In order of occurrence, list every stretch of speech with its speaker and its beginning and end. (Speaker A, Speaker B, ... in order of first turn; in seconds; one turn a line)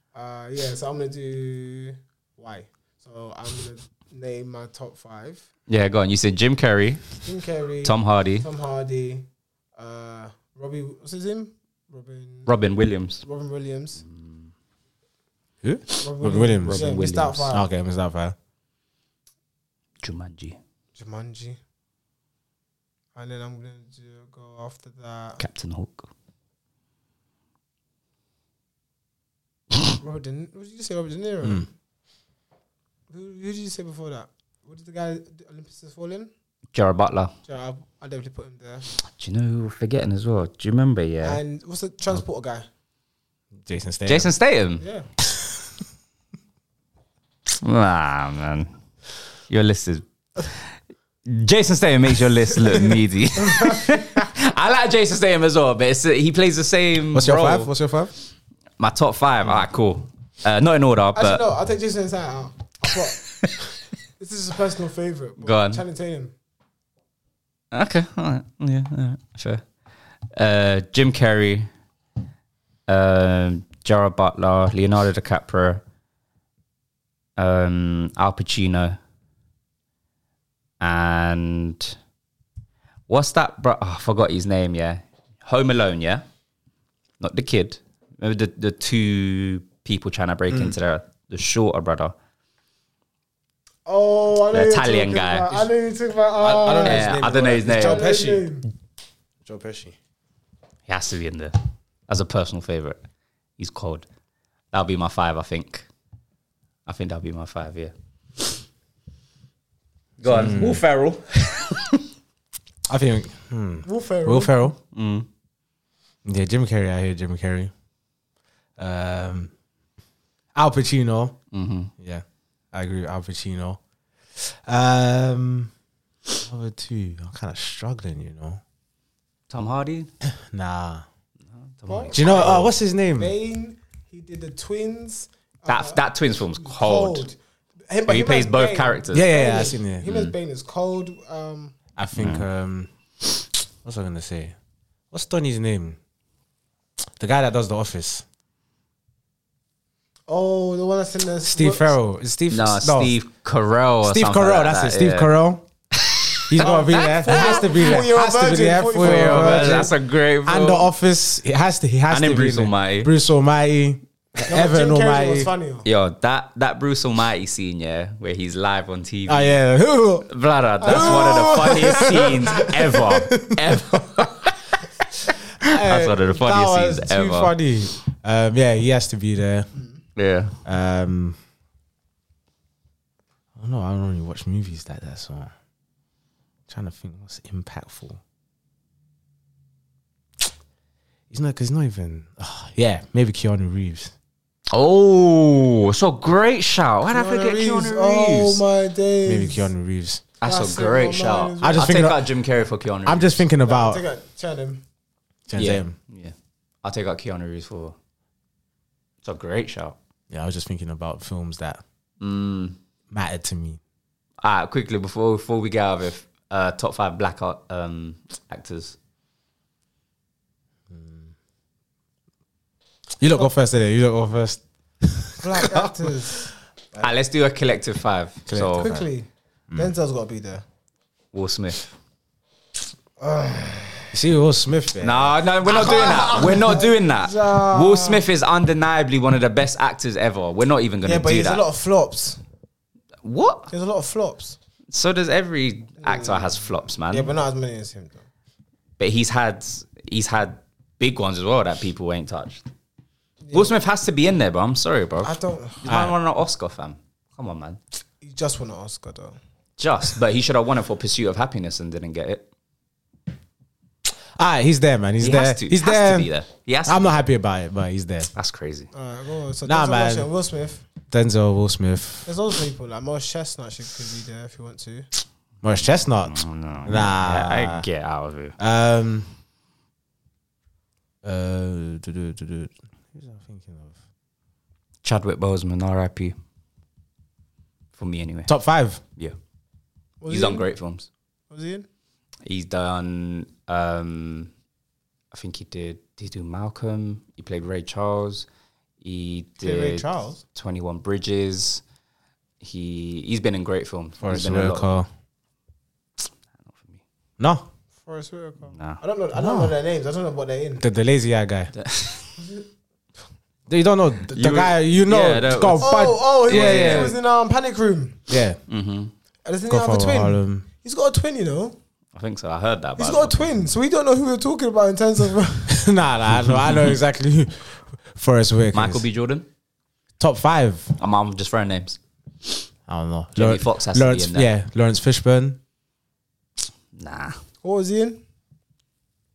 Speaker A: 0.1-5.4
Speaker B: 5.7-7.0
Speaker A: 7.2-9.3
Speaker B: 7.8-8.4
Speaker A: 9.8-12.5
Speaker B: 12.5-13.2
Speaker A: 13.2-14.0
Speaker B: 14.0-14.4
Speaker C: 15.6-16.8
Speaker A: 16.0-17.7
Speaker B: 16.7-17.5
Speaker C: 17.5-18.4
Speaker B: 20.0-20.6
Speaker A: 21.0-21.6
Speaker A: 23.1-25.4
Speaker B: 25.4-26.1
Speaker A: 30.0-31.7
Speaker A: 33.1-36.3
Speaker B: 36.7-37.3
Speaker A: 37.5-38.9
Speaker B: 39.2-41.4
Speaker A: 41.2-42.7
Speaker C: 43.6-44.3
Speaker B: 44.1-44.8
Speaker A: 44.8-45.1
Speaker B: 47.5-48.7
Speaker B: 49.5-50.6
Speaker B: 51.2-57.7
Speaker A: 53.4-54.0
Speaker C: 57.1-58.1
Speaker B: 58.8-61.4
Speaker A: 61.1-63.2
Speaker A: 64.2-66.3
Speaker B: 65.4-65.8
Speaker B: 67.7-69.6
Speaker B: 70.4-71.7
Speaker B: 72.9-75.8
Speaker B: 77.4-79.0
Speaker B: 80.8-82.0
Speaker B: 83.1-86.2
Speaker B: 87.2-92.1
Speaker A: 93.9-97.2
Speaker B: 94.5-95.7
Speaker C: 96.4-98.5
Speaker B: 96.7-98.1
Speaker A: 97.7-98.7
Speaker C: 99.4-100.0
Speaker B: 100.9-101.5
Speaker B: 102.1-103.0
Speaker B: 103.6-104.1
Speaker B: 104.7-105.9
Speaker B: 106.9-107.9
Speaker B: 110.2-112.0
Speaker C: 110.3-110.8
Speaker C: 112.9-114.8
Speaker A: 113.8-114.6
Speaker B: 114.9-115.3
Speaker C: 116.2-117.7
Speaker C: 118.8-119.5
Speaker C: 120.5-121.4
Speaker B: 121.5-121.9
Speaker C: 122.0-123.8
Speaker C: 124.3-125.7
Speaker C: 126.4-128.6
Speaker B: 129.5-130.1
Speaker C: 130.3-131.1
Speaker B: 131.8-132.6
Speaker A: 131.9-136.0
Speaker C: 132.1-133.3
Speaker B: 135.7-137.2
Speaker A: 136.6-137.4
Speaker A: 137.9-141.8
Speaker B: 138.1-139.3
Speaker C: 139.1-140.1
Speaker B: 140.1-140.3
Speaker C: 142.0-142.9
Speaker B: 142.2-142.4
Speaker C: 143.8-144.5
Speaker C: 145.1-146.0
Speaker C: 147.2-148.2
Speaker A: 150.3-151.9
Speaker C: 151.4-153.1
Speaker B: 152.5-155.3
Speaker C: 154.0-155.7
Speaker B: 156.0-156.7
Speaker C: 156.5-165.5
Speaker A: 156.6-159.9
Speaker B: 157.3-157.8
Speaker B: 158.9-160.9
Speaker B: 162.1-163.1
Speaker A: 164.5-165.9
Speaker B: 165.8-169.6
Speaker C: 169.3-170.3
Speaker B: 170.3-174.5
Speaker A: 170.8-172.9
Speaker C: 170.8-174.0
Speaker C: 175.6-179.7
Speaker B: 175.8-177.5
Speaker B: 180.2-180.6
Speaker C: 180.7-181.4
Speaker C: 183.6-185.5
Speaker C: 186.7-188.2
Speaker C: 191.3-194.1
Speaker B: 194.7-198.6
Speaker A: 197.1-199.7
Speaker C: 199.3-200.2
Speaker B: 200.4-203.4
Speaker A: 200.4-202.0
Speaker C: 201.6-202.2
Speaker C: 203.1-204.0
Speaker A: 203.7-204.8
Speaker C: 205.5-205.9
Speaker B: 205.6-208.0
Speaker B: 209.2-210.0
Speaker C: 210.3-211.8
Speaker B: 212.2-212.8
Speaker C: 213.1-213.8
Speaker B: 214.4-219.0
Speaker C: 220.9-221.3
Speaker C: 223.2-226.1
Speaker A: 225.4-226.5
Speaker B: 227.0-228.9
Speaker C: 228.5-229.1
Speaker A: 228.8-230.6
Speaker B: 231.3-232.0
Speaker A: 233.2-234.1
Speaker C: 234.1-235.3
Speaker B: 235.0-241.6
Speaker A: 235.7-238.2
Speaker A: 241.0-242.4
Speaker B: 243.2-243.7
Speaker A: 243.7-244.6
Speaker B: 244.9-247.3
Speaker A: 246.0-248.2
Speaker B: 249.0-252.6
Speaker A: 253.4-253.8
Speaker B: 253.5-257.8
Speaker A: 255.2-255.8
Speaker C: 255.9-256.1
Speaker A: 258.2-259.4
Speaker B: 259.8-262.5
Speaker C: 264.1-266.3
Speaker B: 265.2-267.2
Speaker C: 266.9-268.3
Speaker B: 268.3-268.9
Speaker A: 268.9-270.9
Speaker C: 269.6-270.3
Speaker C: 271.1-272.3
Speaker A: 272.3-275.1
Speaker C: 275.6-277.9
Speaker B: 276.2-278.6
Speaker C: 278.6-279.3
Speaker C: 281.2-284.0
Speaker B: 285.0-286.4
Speaker B: 288.0-288.5
Speaker C: 288.5-289.0
Speaker A: 290.2-290.6
Speaker B: 290.3-291.1
Speaker A: 291.5-291.9
Speaker B: 292.5-294.5
Speaker B: 295.3-298.5
Speaker B: 299.0-301.8
Speaker A: 299.6-300.4
Speaker B: 302.6-304.9
Speaker C: 304.2-305.1
Speaker B: 306.7-307.0
Speaker C: 307.4-307.7
Speaker A: 308.1-310.8
Speaker B: 308.7-309.0
Speaker C: 309.4-309.7
Speaker C: 310.8-311.7
Speaker B: 311.8-312.4
Speaker A: 312.4-312.6
Speaker C: 313.7-317.1
Speaker B: 314.3-317.2
Speaker A: 315.8-318.3
Speaker C: 318.3-318.6
Speaker B: 318.7-319.1
Speaker A: 319.5-321.8
Speaker C: 319.7-320.7
Speaker B: 322.2-323.5
Speaker A: 323.0-325.9
Speaker C: 325.7-329.0
Speaker B: 328.7-329.5
Speaker C: 330.2-330.9
Speaker B: 331.0-332.6
Speaker C: 332.9-335.6
Speaker B: 333.4-334.5
Speaker B: 336.9-337.4
Speaker A: 337.6-338.2